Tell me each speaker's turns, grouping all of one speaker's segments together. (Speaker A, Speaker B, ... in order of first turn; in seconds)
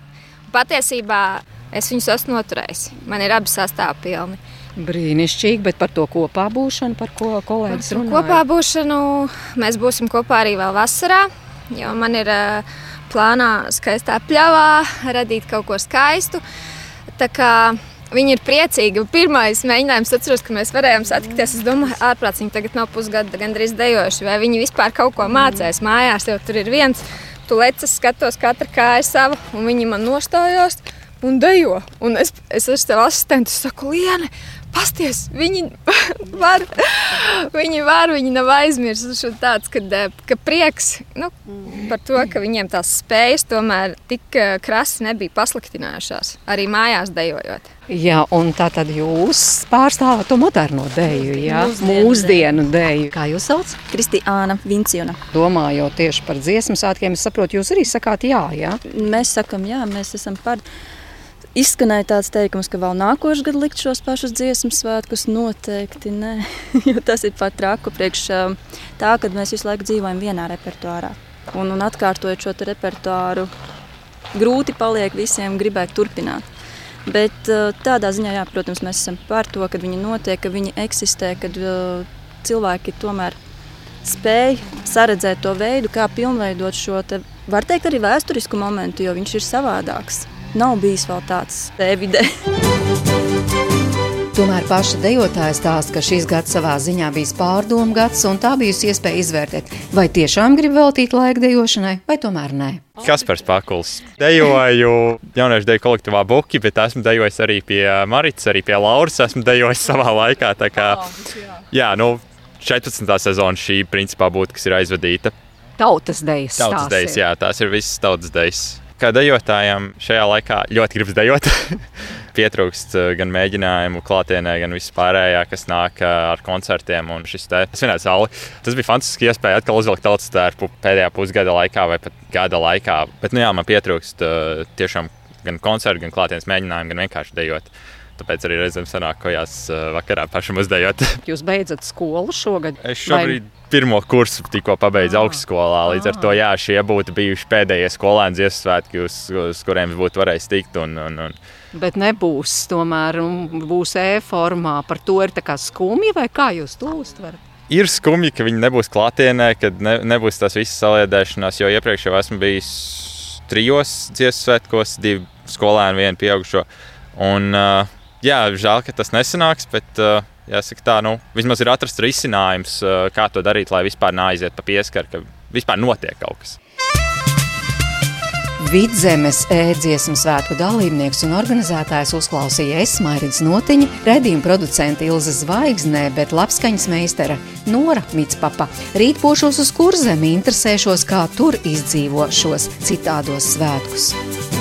Speaker A: 0.5-4.4, 7.7-16.4, 17.2-47.7
Speaker B: 4.8-8.4, 47.9-53.8, 55.3-58.8, 94.3-103.0, 115.8-117.2, 141.2-143.4, 145.0-146.4, 151.7-157.4, 178.6-194.2
Speaker C: 51.6-52.3, 53.9-55.2, 58.9-60.6, 61.5-73.5, 74.3-76.5, 77.1-83.4, 84.0-92.3
Speaker D: 103.0-111.1, 111.7-115.3, 116.6-141.2, 142.8-151.4, 157.7-176.6